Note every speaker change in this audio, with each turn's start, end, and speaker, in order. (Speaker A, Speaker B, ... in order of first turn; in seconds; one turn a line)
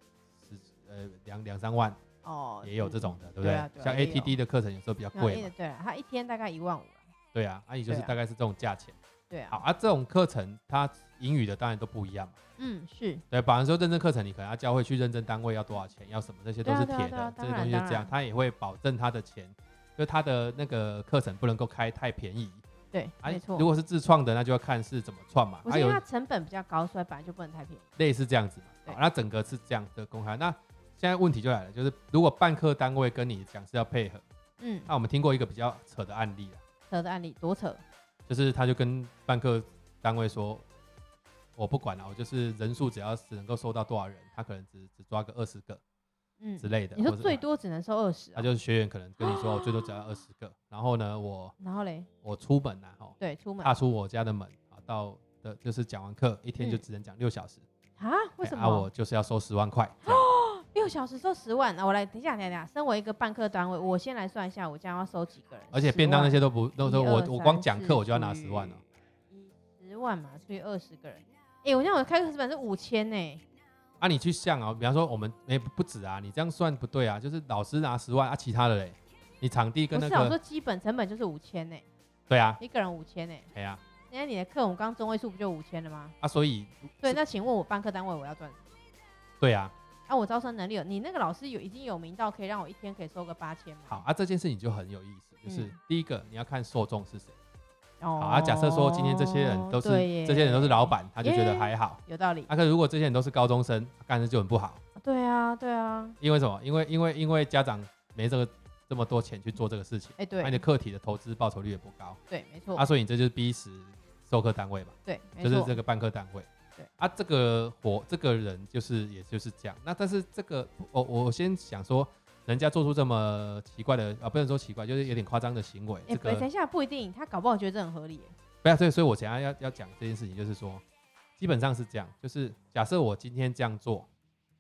Speaker A: 0.4-2.0
Speaker B: 2.2-4.4
Speaker A: 2.6-5.5
Speaker B: 5.2-7.1
Speaker A: 7.3-9.0
Speaker B: 7.9-8.1
Speaker B: 9.3-9.6
Speaker A: 9.5-12.4
Speaker B: 12.6-13.2
Speaker A: 13.3-22.6
Speaker B: 16.6-18.1
Speaker B: 22.9-23.7
Speaker A: 23.2-26.0
Speaker B: 25.6-27.9
Speaker A: 28.0-34.2
Speaker B: 34.6-34.9
Speaker A: 34.9-36.6
Speaker B: 36.9-37.8
Speaker A: 38.3-40.6
Speaker A: 41.6-45.8
Speaker B: 46.4-48.5
Speaker A: 46.6-47.4
Speaker A: 48.4-51.5
Speaker B: 49.2-50.0
Speaker B: 51.6-52.1
Speaker A: 52.2-57.6
Speaker B: 53.2-53.8
Speaker B: 56.6-56.8
Speaker B: 58.0-58.9
Speaker A: 58.4-60.3
Speaker B: 60.0-68.8
Speaker A: 65.7-68.8
Speaker B: 69.3-73.4
Speaker A: 74.0-80.4
Speaker B: 79.9-81.9
Speaker A: 82.3-82.6
Speaker B: 82.6-83.5
Speaker A: 83.5-83.8
Speaker B: 84.1-86.2
Speaker A: 86.2-87.2
Speaker B: 87.0-88.7
Speaker A: 89.4-89.7
Speaker B: 90.1-94.0
Speaker A: 93.9-97.4
Speaker B: 95.5-95.8
Speaker B: 98.0-102.5
Speaker A: 98.2-104.8
Speaker B: 105.0-106.2
Speaker A: 106.2-112.2
Speaker B: 110.2-110.6
Speaker B: 112.3-112.8
Speaker A: 112.8-116.5
Speaker B: 115.0-115.8
Speaker A: 117.0-126.5
Speaker B: 126.1-128.3
Speaker A: 128.6-130.8
Speaker A: 131.4-134.1